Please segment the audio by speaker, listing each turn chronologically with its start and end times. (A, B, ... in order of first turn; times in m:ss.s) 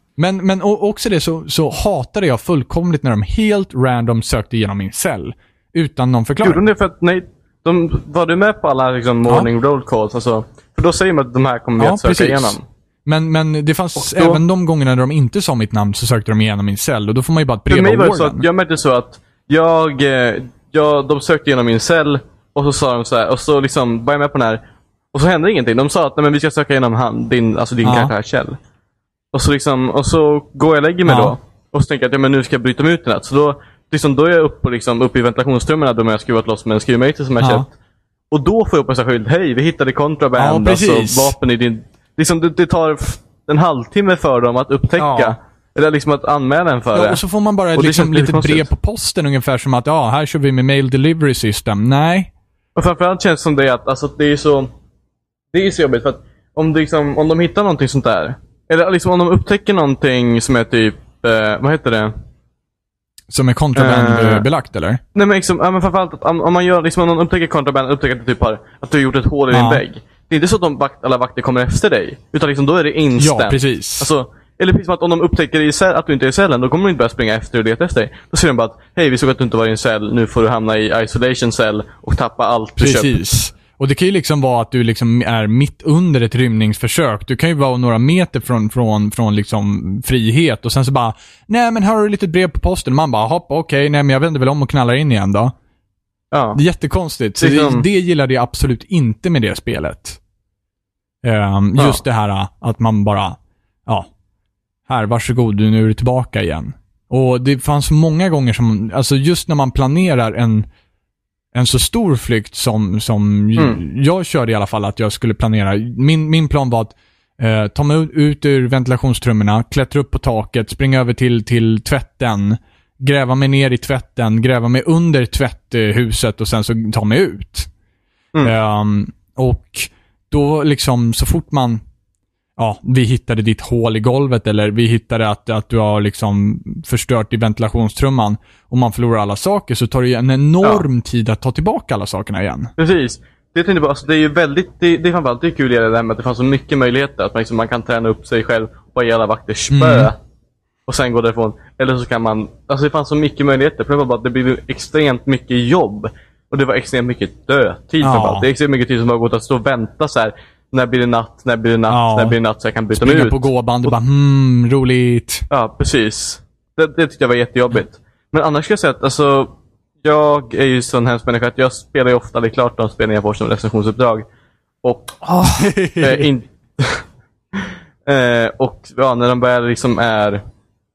0:00.2-0:06.6 A
0:06.4-0:12.6 B
0:11.8-0:18.5 A
0:14.0-0:14.4 B
0:17.7-0:28.6 B
0:27.8-0:28.1 A
0:29.3-0:37.7 B
0:31.1-0:31.4 A
0:37.4-0:37.7 A
0:38.3-0:47.2 B
0:40.4-0:41.4 A
0:45.0-0:45.4 A
0:46.9-0:52.3 A
0:47.7-0:48.7 B
0:52.8-0:54.7 B
0:55.5-1:02.1 B
1:03.3-1:05.0 A
1:03.8-1:04.5 B
1:05.2-1:23.2 B
1:09.5-1:09.8 A
1:13.2-1:14.1 A
1:22.8-1:35.5 A
1:36.3-1:36.6 B
1:36.6-1:40.2 A
1:37.4-1:37.8 B
1:41.2-1:44.1 A
1:44.9-1:50.7 A
1:51.5-2:07.7 A
2:08.4-2:11.8 A
2:12.6-2:22.7 A
2:22.8-2:30.2 B
2:29.7-2:30.1 A
2:30.9-2:44.0 B
2:38.0-2:38.5 A
2:41.9-2:42.4 A
2:42.9-2:45.5 A
2:45.5-2:54.3 B
2:54.8-2:55.3 B
2:55.2-2:56.3 A
2:56.0-3:00.4 B